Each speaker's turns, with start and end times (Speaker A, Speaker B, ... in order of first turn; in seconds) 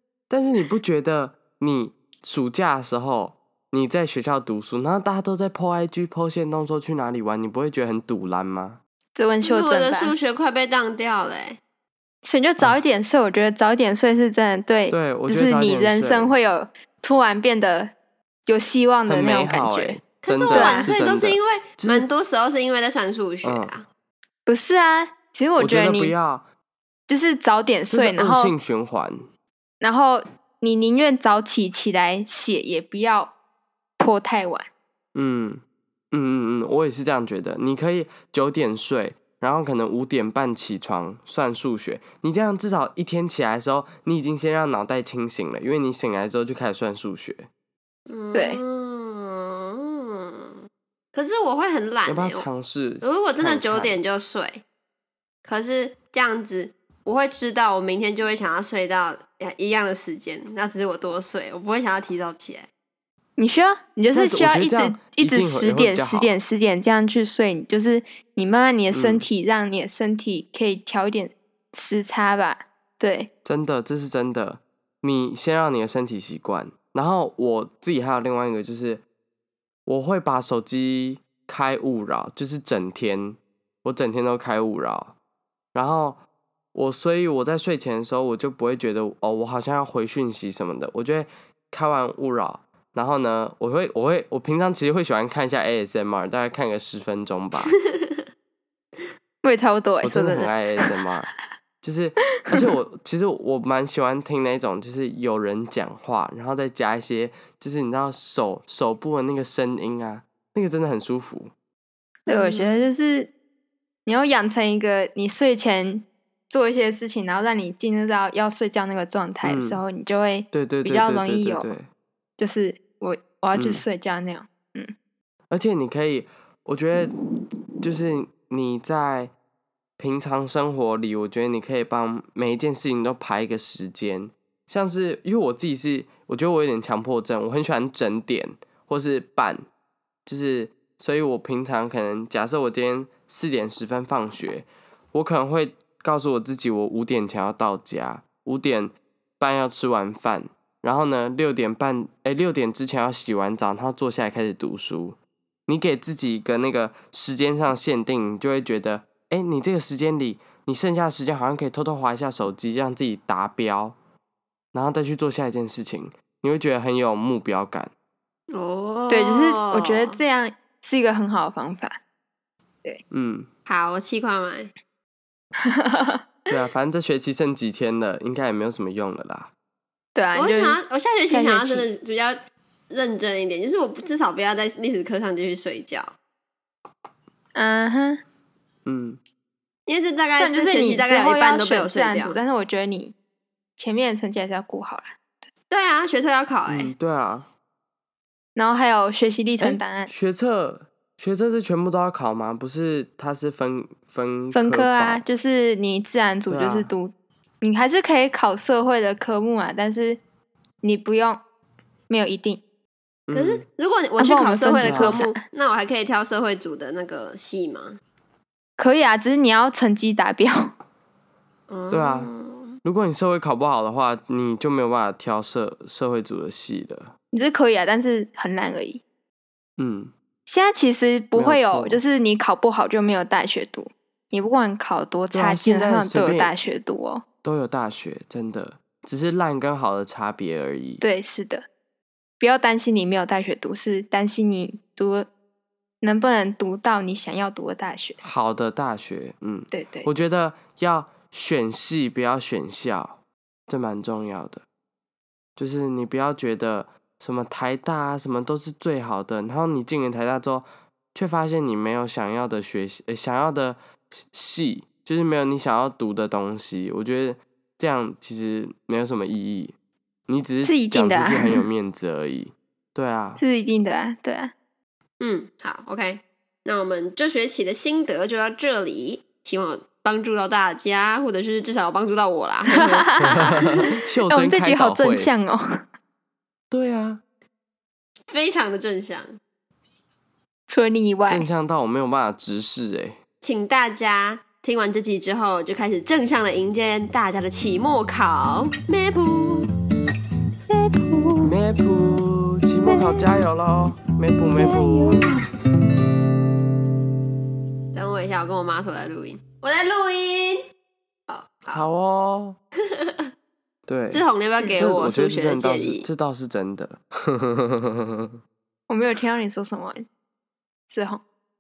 Speaker A: 0.3-8.8, 14.9-16.4, 19.1-22.1, 23.4-23.7, 25.6-26.4, 27.9-29.2, 35.1-47.5, 52.1-54.0, 64.1-66.4, 68.9-69.3, 73.4-79.0, 79.9-85.2, 85.7-86.2, 86.7-97.7, 100.0-101.3, 101.8-111.5, 119.4-119.8, 120.5-121.9, 123.5-123.8, 125.5-127.2, 127.8-129.3, 130.0-139.6, 140.3-163.9, 164.7-167.9, 173.1-173.5, 176.5-179.5, 188.9-189.2, 196.7-197.5, 199.6-205.2, 206.5-206.9, 213.3-213.6, 214.8-215.2, 221.9-222.3, 222.8-227.1, 229.8-230.1, 231.3-232.0, 235.3-236.5, 237.4-241.0, 248.2-254.6, 255.6-269.8, 270.3-273.4, 283.2-285.3, 286.7-287.2, 291.2-293.2, 301.4-305.3, 311.7-312.6, 313.9-314.2, 314.8-318.3
Speaker B: 9.2-10.2, 12.2-17.9, 18.5-20.0, 20.5-20.9, 24.5-26.1, 27.1-28.5, 29.8-33.3, 34.0-34.7, 48.3-48.6, 63.4-73.3, 99.4-100.6, 112.3-113.3, 114.1-121.7, 122.4-124.9, 169.1-172.0, 175.6-176.3, 180.2-180.8, 181.3-181.9, 187.6-188.2, 190.4-193.1, 193.8-195.2, 198.6-200.1, 204.5-210.2, 210.8-211.4, 212.1-212.6, 214.2-215.4, 218.8-220.7, 227.3-229.0, 230.5-237.2, 241.0-241.7, 242.4-245.3, 246.0-248.2, 249.7-250.1, 270.6-271.6, 273.4-274.5, 282.7-283.3, 284.3-285.8, 290.7-291.5, 300.7-301.5, 302.9-303.2, 304.6-305.4, 318.9-320.1, 320.9-321.2
Speaker C: 9.4-11.6, 20.2-23.9, 48.1-50.6, 51.1-52.5, 53.0-54.6, 55.5-62.7, 97.7-98.2, 112.3-112.9, 168.5-170.2, 173.7-174.7, 180.3-182.4, 182.9-186.1, 189.9-192.4, 195.7-196.9, 213.3-218.0, 221.7-222.8, 275.2-283.2, 288.3-289.4, 293.4-299.7, 307.9-310.7, 311.3-311.8, 312.9-313.3, 314.1-316.1